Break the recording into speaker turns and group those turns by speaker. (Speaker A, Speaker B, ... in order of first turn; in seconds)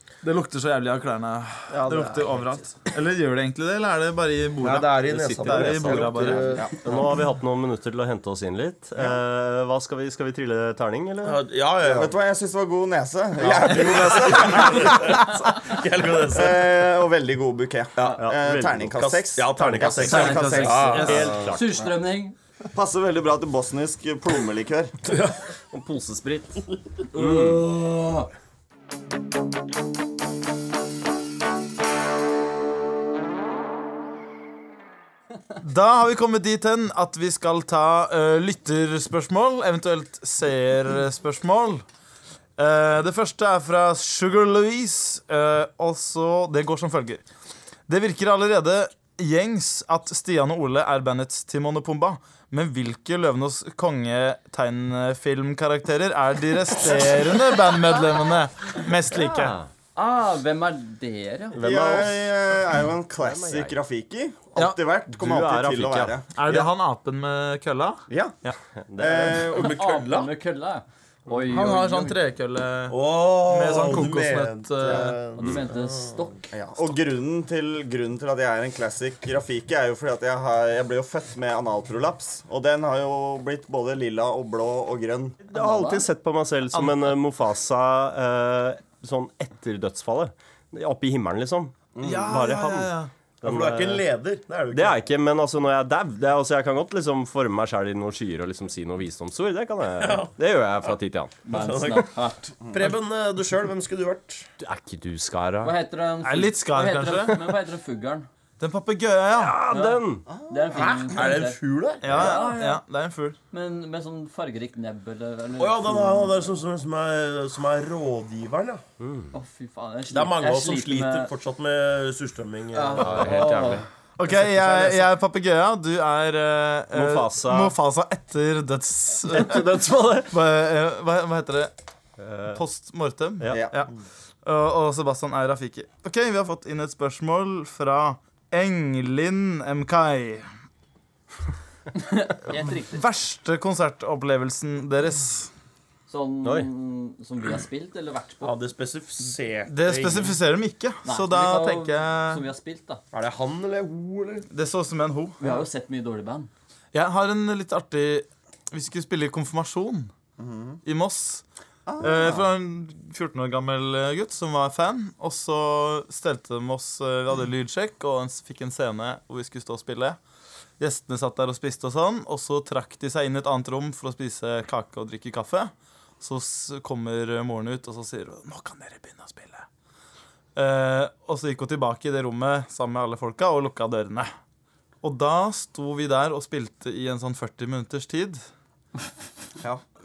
Speaker A: 0.2-6.6, 20.0-21.4, 35.6-41.8, 42.6-47.2, 47.9-59.5, 66.3-68.5, 71.5-75.2, 86.7-87.0, 92.0-93.1, 106.2-107.5, 108.6-109.6, 112.0-113.4, 124.2-129.7, 130.2-131.7, 132.5-133.9, 134.4-140.4, 142.7-145.5, 149.7-152.4, 154.5-155.5, 156.9-160.1, 160.8-161.4, 162.0-170.2, 170.8-179.7, 180.6-184.3, 185.0-188.4
Speaker B: 4.6-7.1, 11.2-12.1, 13.4-16.7, 17.9-21.3, 25.1-25.4, 27.1-28.3, 69.3-70.3, 72.9-76.3, 93.4-95.0, 100.0-100.3, 101.5-104.5, 110.7-112.5, 115.6-118.8, 120.1-123.5, 148.4-150.4, 153.1-154.5
Speaker C: 5.1-11.4, 18.2-18.9, 21.0-21.8, 25.7-26.6, 27.1-27.7, 59.1-59.7, 61.5-62.1, 63.2-63.7, 65.1-66.2, 68.7-69.5, 85.5-91.7, 92.3-94.0, 94.7-101.4, 104.6-105.7, 109.4-110.2, 119.0-119.3, 123.0-123.8, 126.9-127.7, 129.3-130.3, 132.2-132.6, 133.4-133.7, 146.4-146.7
Speaker D: 11.8-15.4, 16.3-21.3, 22.7-24.9, 61.5-66.7, 68.1-68.3, 69.0-69.8, 76.5-85.4, 91.9-92.4, 110.3-110.9, 160.4-160.8, 161.8-162.5
Speaker E: 20.1-22.4, 59.9-61.9, 69.5-72.2, 75.4-76.5, 85.5-86.1, 101.4-102.5, 105.6-108.3, 109.7-112.8, 113.5-116.4, 119.3-121.3, 122.7-123.8, 141.9-143.0, 146.1-148.5, 151.0-153.0, 155.4-156.5